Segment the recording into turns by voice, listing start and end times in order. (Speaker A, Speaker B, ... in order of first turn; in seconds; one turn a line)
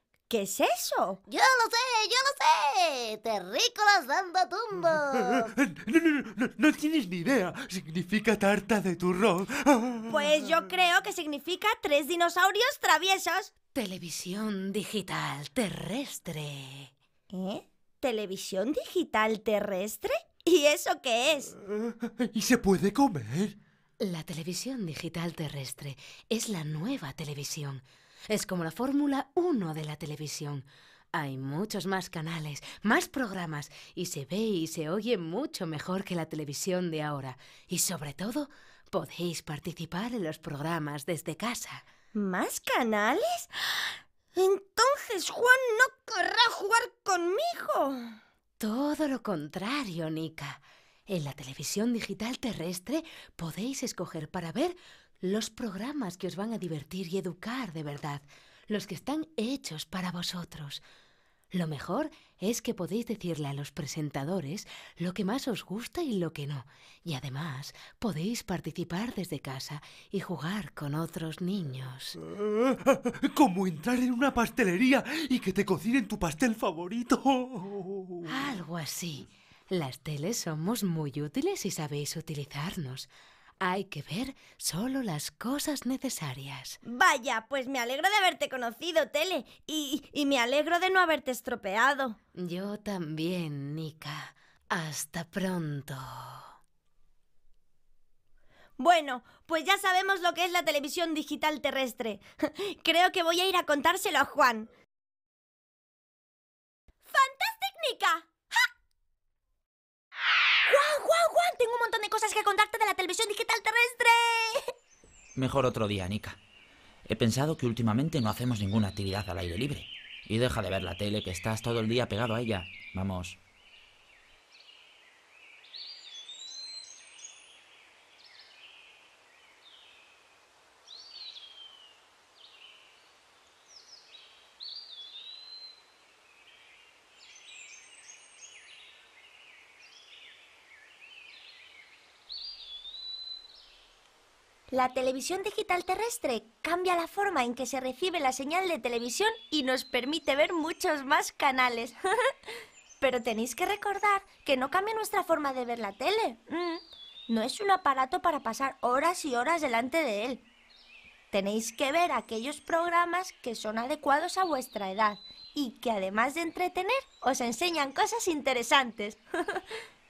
Speaker A: 0.3-1.2
Speaker B: 1.3-5.5
Speaker C: 5.2-10.2
Speaker A: 10.1-13.5
Speaker D: 13.7-16.9
Speaker A: 17.3-21.5
Speaker C: 21.9-23.6
Speaker D: 24.0-41.8
Speaker A: 42.1-48.1
Speaker D: 48.6-60.8
Speaker D: 61.5-72.2
Speaker C: 72.4-78.3
Speaker D: 78.3-86.8
Speaker A: 86.8-92.2
Speaker D: 92.3-96.5
Speaker A: 98.8-104.7
Speaker A: 107.1-108.3
Speaker A: 110.7-114.7
Speaker E: 115.4-116.4
Speaker E: 117.1-123.4
Speaker A: 144.7-151.9
Speaker A: 153.0-160.4
Speaker A: 161.3-169.6